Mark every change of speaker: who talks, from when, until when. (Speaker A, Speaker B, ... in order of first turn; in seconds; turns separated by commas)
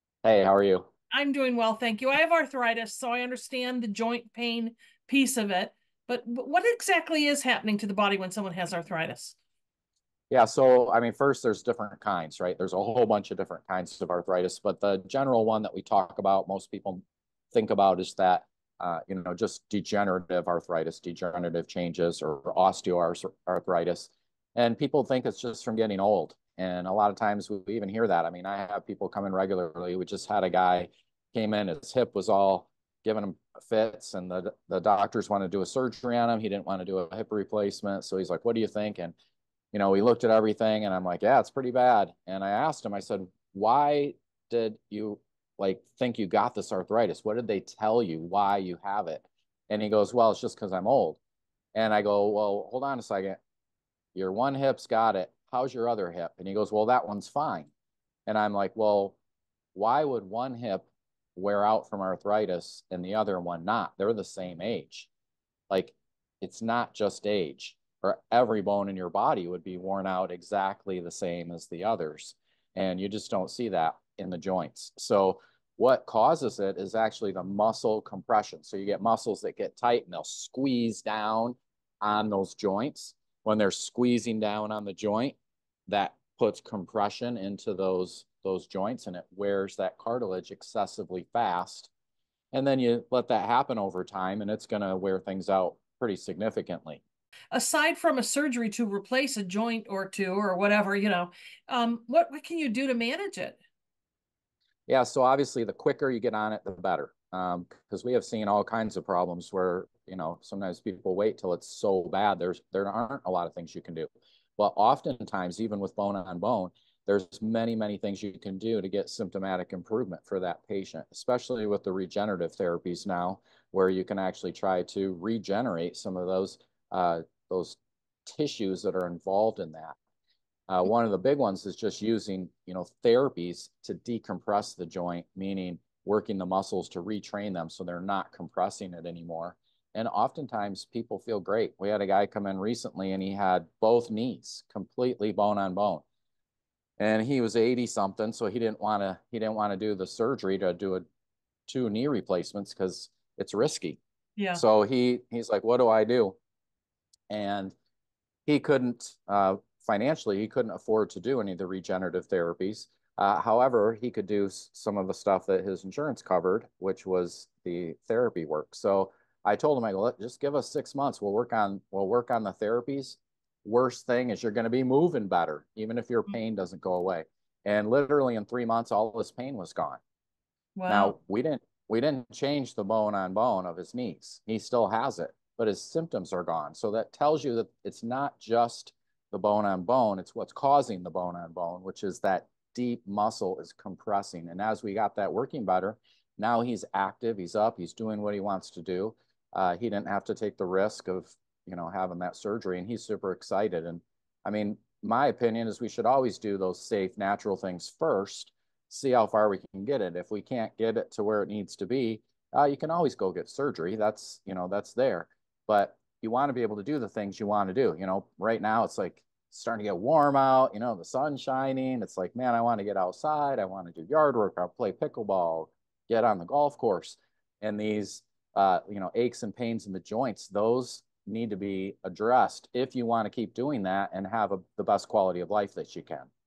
Speaker A: 0.2-0.9, Speaker B: 1.1-9.4, Speaker A: 10.3-17.0, Speaker A: 17.5-39.1, Speaker A: 39.7-51.2, Speaker A: 51.8-53.4, Speaker A: 54.1-57.7, Speaker A: 58.3-59.2, Speaker A: 59.8-65.1, Speaker A: 65.7-91.9, Speaker A: 92.5-97.0, Speaker B: 97.5-103.6, Speaker A: 104.9-130.0, Speaker A: 130.7-146.0, Speaker A: 147.0-151.1, Speaker A: 151.7-154.0, Speaker B: 154.4-154.6, Speaker A: 154.5-156.4, Speaker A: 157.3-157.8, Speaker A: 158.5-180.0, Speaker B: 180.8-181.2, Speaker A: 180.9-236.3